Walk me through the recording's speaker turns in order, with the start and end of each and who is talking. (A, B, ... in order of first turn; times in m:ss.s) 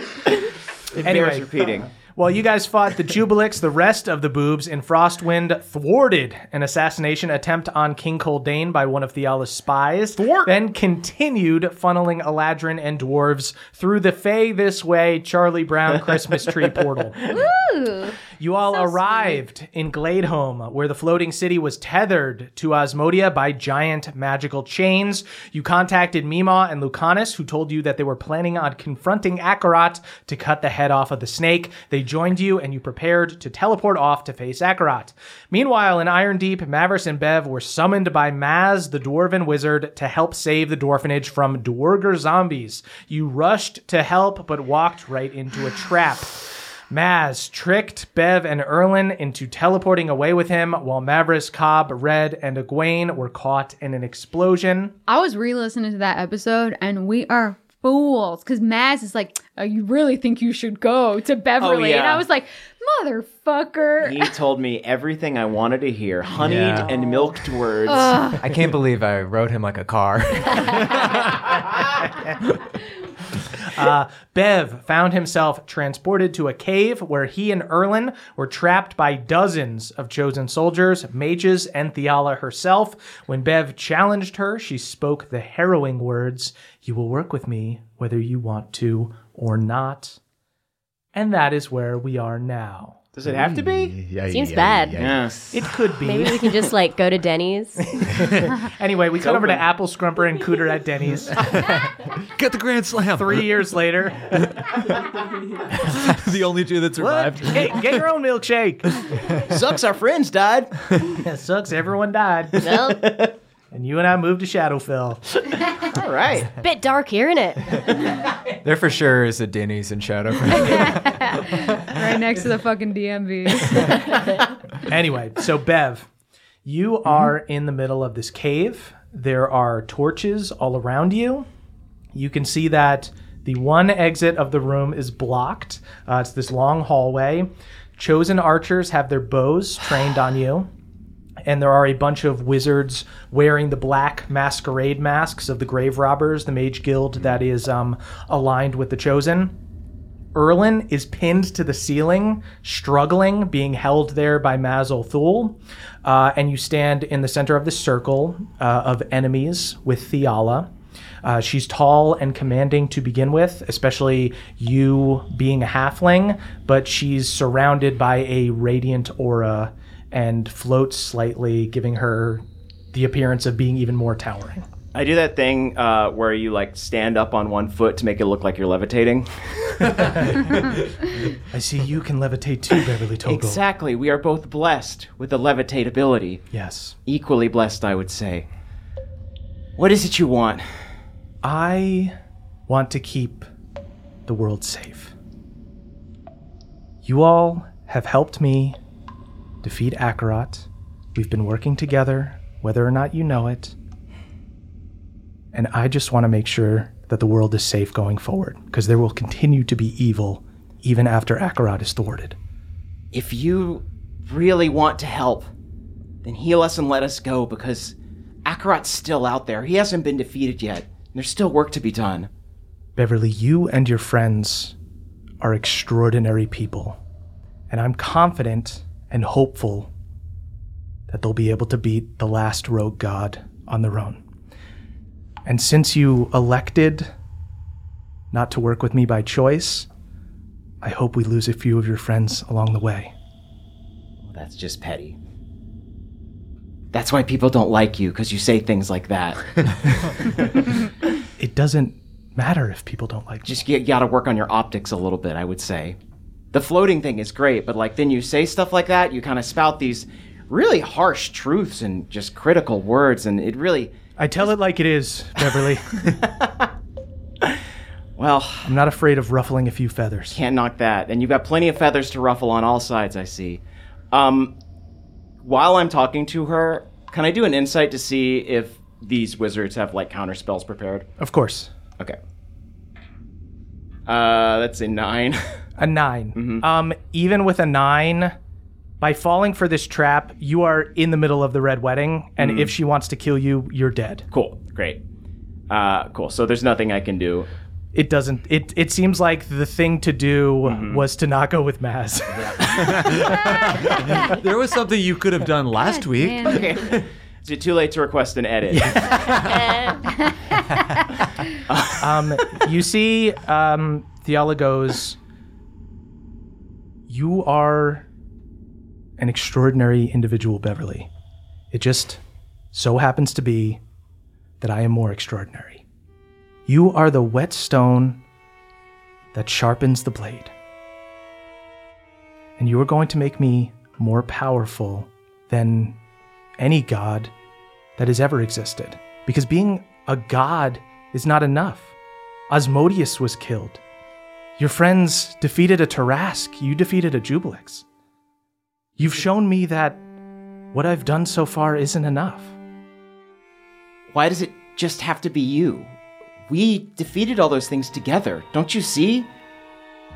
0:00.9-0:01.9 A
0:01.0-0:17.3 B
0:10.2-0:10.5 A
0:17.3-0:18.2 C
0:18.4-0:54.9 B
0:18.7-0:19.4 C
0:55.1-1:04.3 C
1:01.6-1:02.2 A
1:04.0-1:08.3 A
1:06.4-1:07.0 D
1:07.8-1:08.4 C
1:08.3-1:11.7 D
1:13.6-1:30.2 B
1:31.1-1:33.0 B
1:33.2-1:33.9 A
1:33.2-1:35.6 E
1:34.3-1:35.1 F
1:35.0-1:35.4 A
1:35.5-1:36.5 B
1:36.0-1:37.8 F
1:38.0-1:41.4 B
1:38.2-1:38.5 E
1:39.2-1:39.6 A
1:42.3-1:43.7 E
1:43.1-1:44.6 B
1:44.6-1:44.9 E
1:45.7-1:48.0 E
1:47.0-1:48.9 B
1:49.4-1:50.8 A
1:51.2-1:52.8 B
1:52.6-1:53.0 F
1:52.6-1:53.3 A
1:53.7-1:55.2 B
1:55.9-1:56.5 A
1:56.6-1:57.8 F
1:58.6-2:01.1 D
2:00.5-2:04.3 C
2:04.8-2:06.1 B
2:06.6-2:11.4 B
2:12.1-2:20.7 B
2:21.4-2:29.5 B
2:30.3-2:40.7 B
2:41.2-2:54.6 B
2:54.9-3:00.6 A
3:01.5-3:03.6 B
3:03.2-3:06.4 A
3:06.5-3:07.0 B
3:07.0-3:08.5 A
3:09.8-3:10.6 A
3:11.4-3:12.2 B
3:12.7-3:13.4 B
3:14.2-3:15.1 B
3:17.0-3:18.8 B
3:19.6-3:23.7 B
3:25.5-3:32.4 B
3:33.1-3:35.5 A
3:36.2-3:42.3 A
3:43.0-3:44.7 B
3:45.4-3:47.0 B
3:47.7-3:49.9 B
3:51.1-3:54.2 B
3:55.4-3:57.1 B
3:58.3-3:59.9 B
4:00.8-4:03.1 B
4:04.2-4:05.2 A
4:06.9-4:10.5 A
4:11.4-4:13.5 B
4:13.4-4:16.0 A
4:16.5-4:23.9 A
4:24.2-4:26.7 B
4:28.2-4:28.7 A
4:28.6-4:30.4 B
4:30.3-4:34.5 A
4:35.4-4:41.1 A
4:41.2-4:41.7 B
4:44.1-4:45.4 A
4:45.8-4:48.3 B
4:46.4-4:46.6 A
4:49.0-4:54.2 B
4:52.4-4:52.7 A
4:54.3-4:55.0 A
4:55.7-4:57.5 A
4:57.9-5:04.2 B
5:00.6-5:01.0 A
5:02.3-5:02.6 A
5:02.9-5:06.8 E
5:05.7-5:06.7 C
5:06.4-5:09.3 A
5:08.7-5:09.5 B
5:11.6-5:12.6 A
5:12.0-5:15.2 B
5:17.1-5:18.1 B
5:19.2-5:21.1 B
5:21.7-5:22.2 B
5:22.7-5:23.8 B
5:24.6-5:25.8 B
5:26.7-5:28.2 B
5:29.3-5:30.5 B
5:32.6-5:36.0 B
5:36.6-5:37.3 B
5:38.0-5:41.9 B
5:42.5-5:43.8 B
5:44.6-5:47.8 B
5:49.0-5:50.0 B
5:50.7-5:52.5 B
5:54.1-5:55.9 A
5:56.5-5:59.3 A